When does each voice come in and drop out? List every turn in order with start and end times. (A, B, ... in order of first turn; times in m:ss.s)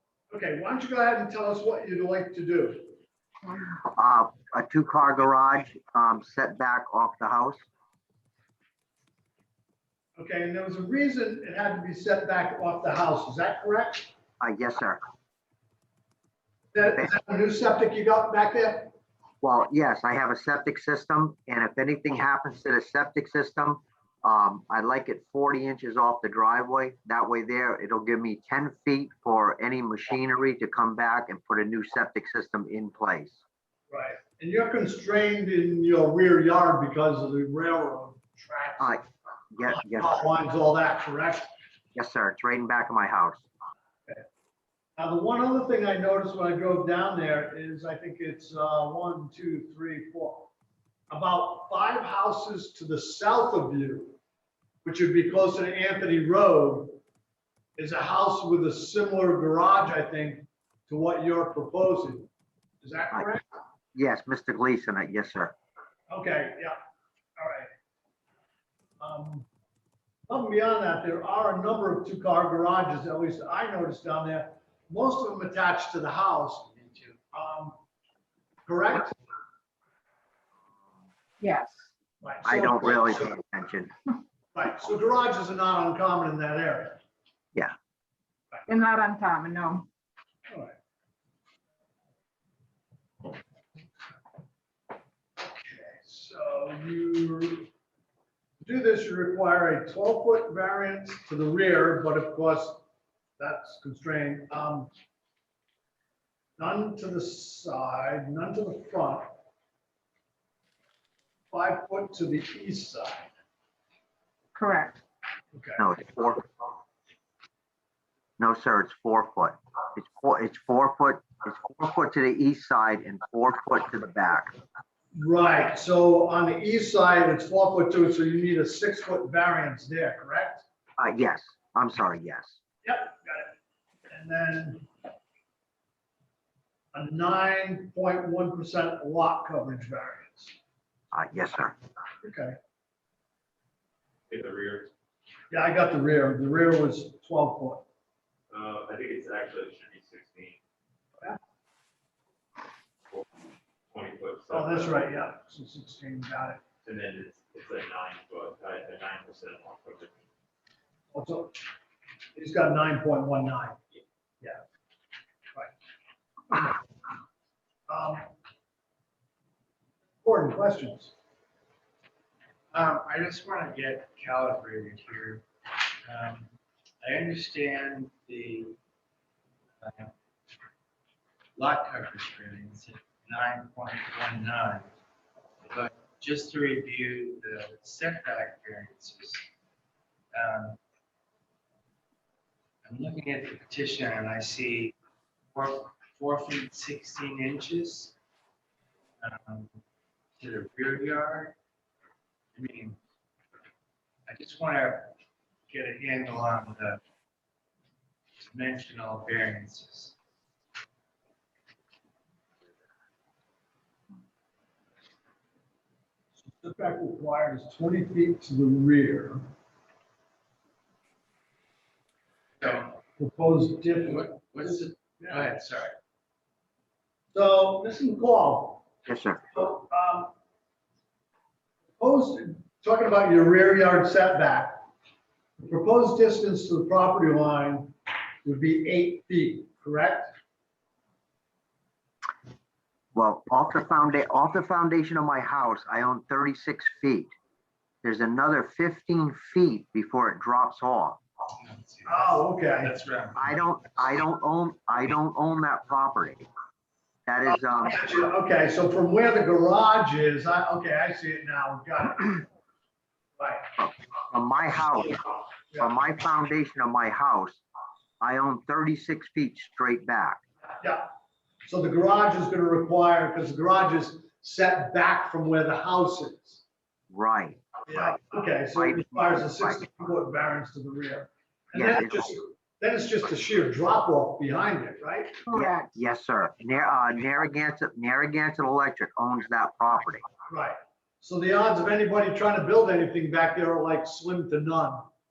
0:00.3-0:03.0 A
0:03.8-0:07.6 B
0:10.2-0:14.1 A
0:14.4-0:15.0 B
0:16.7-0:18.9 A
0:19.4-0:33.4 B
0:33.9-0:39.0 A
0:38.8-0:40.2 B
0:39.6-0:41.5 A
0:42.0-0:43.4 B
0:45.0-0:50.5 A
0:51.1-0:54.2 A
0:54.8-0:57.0 A
0:57.8-1:02.3 A
1:02.8-1:03.4 A
1:04.0-1:05.5 B
1:06.1-1:06.8 A
1:07.4-1:07.7 A
1:09.0-1:09.5 A
1:10.3-1:16.7 A
1:16.7-1:17.2 C
1:17.3-1:17.8 A
1:18.7-1:19.2 A
1:21.4-1:21.9 D
1:22.2-1:23.4 A
1:22.5-1:23.9 B
1:24.5-1:27.0 A
1:28.7-1:29.9 D
1:30.5-1:30.8 A
1:35.4-1:37.7 A
1:38.6-1:42.8 A
1:43.4-1:44.9 A
1:46.6-1:49.3 A
1:51.5-1:53.3 A
1:54.6-1:55.0 D
1:55.5-1:55.8 A
1:55.8-1:56.4 B
1:58.4-2:04.5 B
2:05.1-2:10.6 A
2:11.0-2:12.6 B
2:12.8-2:13.6 A
2:14.1-2:14.9 A
2:16.9-2:20.6 A
2:21.1-2:21.8 B
2:22.2-2:22.6 A
2:24.3-2:24.9 E
2:25.5-2:27.8 A
2:28.5-2:30.6 E
2:33.9-2:35.1 E
2:34.5-2:36.6 A
2:36.8-2:40.1 E
2:41.1-2:41.6 A
2:42.4-2:43.8 A
2:47.9-2:48.3 A
2:50.2-2:51.1 A
2:52.7-2:55.4 C
2:56.0-2:56.5 C
2:57.0-2:58.8 C
2:59.8-3:00.1 C
3:01.6-3:04.9 C
3:05.7-3:09.4 C
3:10.3-3:10.8 C
3:12.8-3:14.9 C
3:15.5-3:18.1 C
3:19.2-3:19.8 C
3:20.4-3:21.5 C
3:22.6-3:23.0 C
3:24.3-3:25.1 C
3:25.7-3:27.0 C
3:28.4-3:30.1 C
3:36.4-3:39.4 A
3:42.6-3:43.0 C
3:43.2-3:45.5 A
3:44.0-3:46.0 C
3:47.3-3:48.8 A
3:49.1-3:49.4 B
3:49.5-3:50.3 A
3:52.0-3:54.8 A
3:55.6-4:00.3 A
4:03.2-4:07.3 B
4:08.0-4:11.2 B
4:11.6-4:13.6 C
4:12.1-4:12.9 A
4:13.4-4:16.5 B
4:17.3-4:18.1 B
4:17.5-4:22.5 A
4:23.4-4:23.7 A
4:23.8-4:25.2 B
4:25.8-4:27.6 B
4:28.2-4:30.4 B
4:30.8-4:31.1 A
4:31.6-4:36.6 A
4:37.1-4:38.2 B
4:37.9-4:45.4 A
4:38.8-4:39.8 B
4:41.8-4:42.3 B
4:45.5-4:45.9 D
4:45.5-4:50.2 B
4:50.5-4:55.1 A